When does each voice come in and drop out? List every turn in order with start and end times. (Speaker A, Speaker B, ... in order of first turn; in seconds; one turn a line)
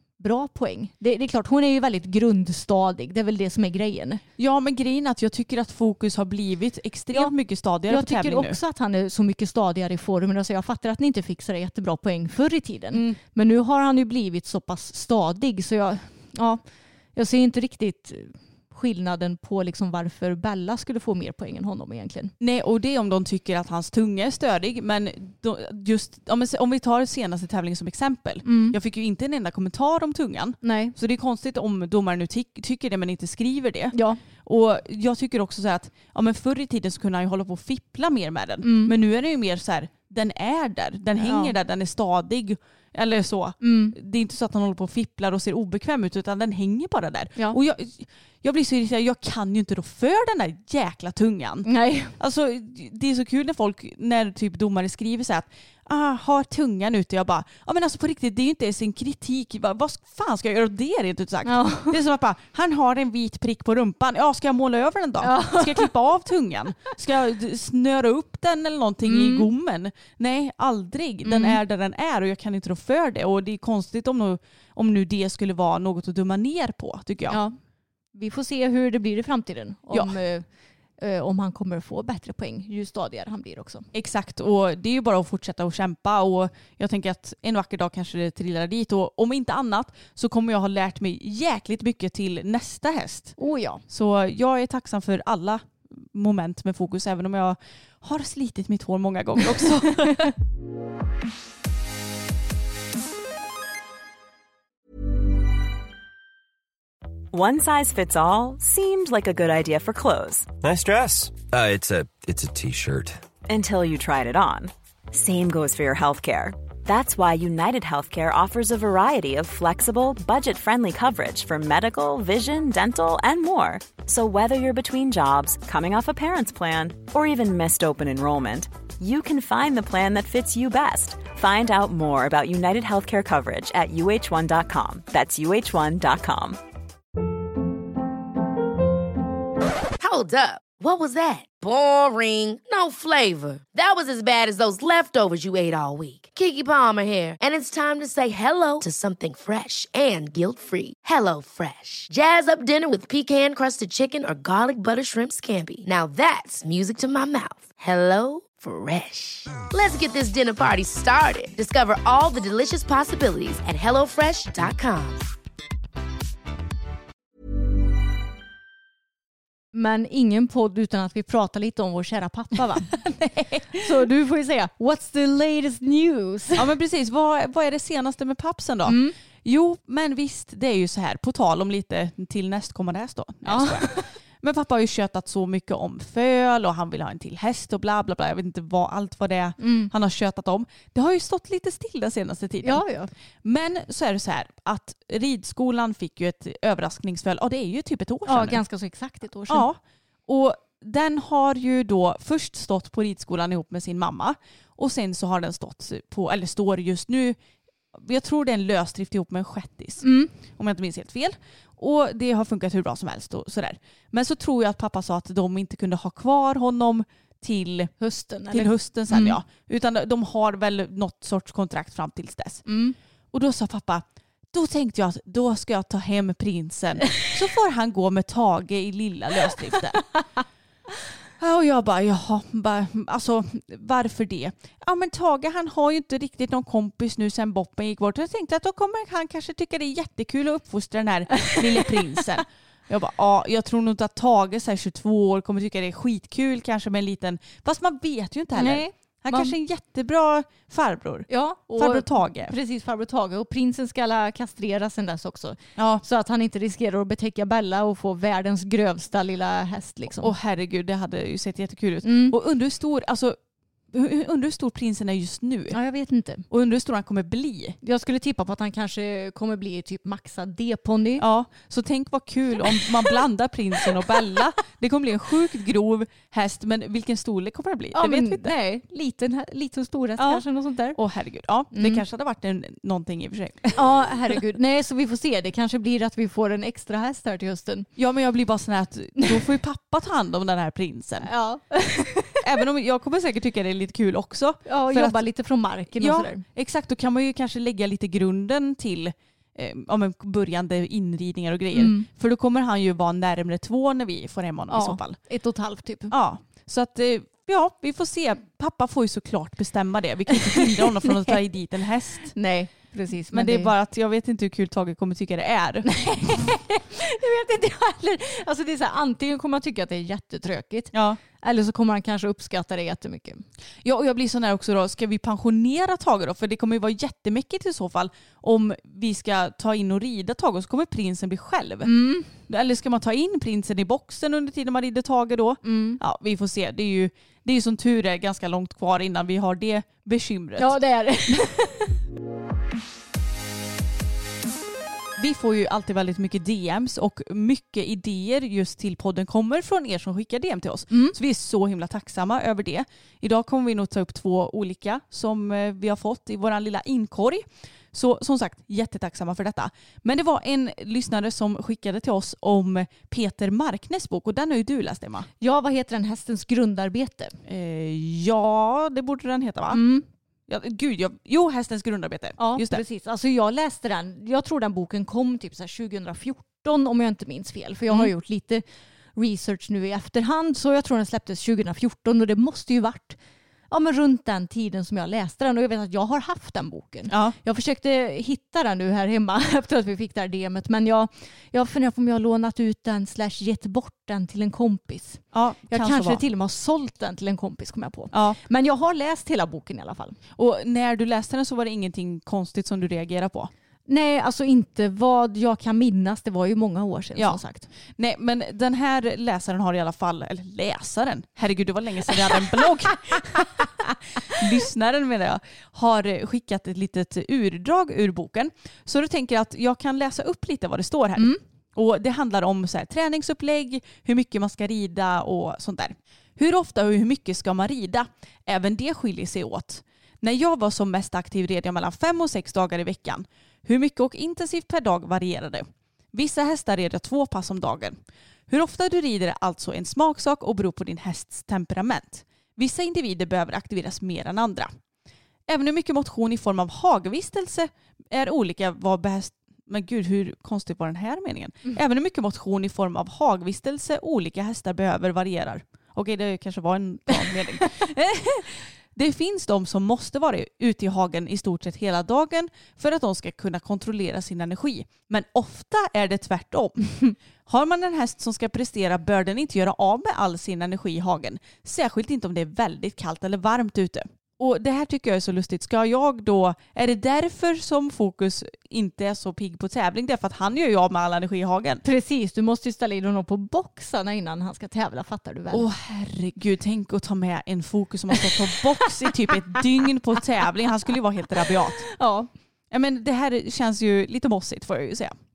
Speaker A: 0.2-4.2
Speaker B: 4.4-8.6
Speaker A: 7.9-16.6
Speaker B: 12.9-13.2
Speaker A: 17.1-22.3
Speaker B: 22.4-77.4
Speaker A: 28.4-28.8
Speaker A: 30.6-30.9
Speaker A: 33.9-34.2
Speaker A: 38.6-39.0
Speaker A: 41.2-41.5
Speaker A: 43.6-44.0
Speaker A: 51.7-52.1
Speaker A: 61.5-62.0
Speaker A: 65.2-65.9
Speaker A: 69.0-69.5
Speaker A: 71.2-71.6
Speaker A: 77.3-77.6
Speaker A: 78.2-80.5
Speaker B: 79.9-80.2
Speaker A: 81.0-83.9
Speaker B: 83.9-93.4
Speaker A: 93.4-93.8
Speaker B: 93.9-100.3
Speaker C: 107.3-110.5
Speaker D: 110.6-113.2
Speaker C: 113.5-136.6
Speaker E: 140.0-165.3
Speaker A: 169.7-173.0
Speaker B: 172.9-173.8
Speaker A: 173.8-176.7
Speaker B: 176.6-192.8
Speaker A: 178.9-179.2
Speaker A: 183.4-184.1
Speaker A: 189.6-189.9
Speaker A: 192.6-193.1
Speaker B: 193.4-198.6
Speaker A: 198.3-199.7
Speaker B: 199.5-207.4
Speaker B: 207.9-217.9
Speaker A: 210.0-210.3
Speaker A: 218.0-219.4
Speaker B: 218.5-222.7
Speaker A: 222.7-223.0
Speaker B: 223.3-230.0
Speaker B: 231.4-252.5
Speaker A: 248.5-249.6
Speaker A: 251.3-260.3
Speaker B: 255.8-256.0
Speaker B: 260.2-263.4
Speaker A: 262.0-262.4
Speaker B: 263.9-265.8
Speaker A: 265.7-266.4
Speaker B: 266.5-267.8
Speaker A: 267.8-271.2
Speaker B: 271.2-278.5
Speaker A: 277.9-281.0
Speaker B: 280.2-283.8
Speaker A: 281.7-282.0
Speaker A: 283.8-287.9
Speaker B: 288.0-291.3
Speaker A: 291.2-292.4
Speaker B: 292.4-295.2
Speaker A: 294.7-296.4
Speaker B: 296.0-305.2
Speaker A: 301.7-302.1
Speaker A: 304.7-306.1
Speaker B: 306.1-312.4
Speaker A: 310.6-311.4
Speaker A: 312.4-313.7
Speaker B: 313.3-315.9
Speaker A: 315.9-323.4
Speaker B: 320.9-321.2
Speaker B: 323.8-340.8
Speaker A: 331.9-332.3
Speaker A: 335.6-336.0
Speaker A: 340.6-342.0
Speaker B: 345.2-365.3
Speaker A: 350.9-351.2
Speaker A: 365.4-367.4
Speaker B: 367.5-369.8
Speaker A: 369.7-370.1
Speaker B: 370.5-372.8
Speaker A: 372.4-378.6
Speaker A: 379.1-383.2
Speaker A: 383.7-400.2
Speaker B: 387.1-387.4
Speaker B: 395.3-396.2
Speaker B: 398.1-398.4
Speaker B: 400.4-403.5
Speaker A: 403.9-407.7
Speaker B: 408.0-413.7
Speaker B: 414.3-444.7
Speaker B: 445.5-481.8
Speaker A: 481.8-485.7
Speaker B: 485.5-491.9
Speaker A: 491.9-492.3
Speaker B: 492.7-495.2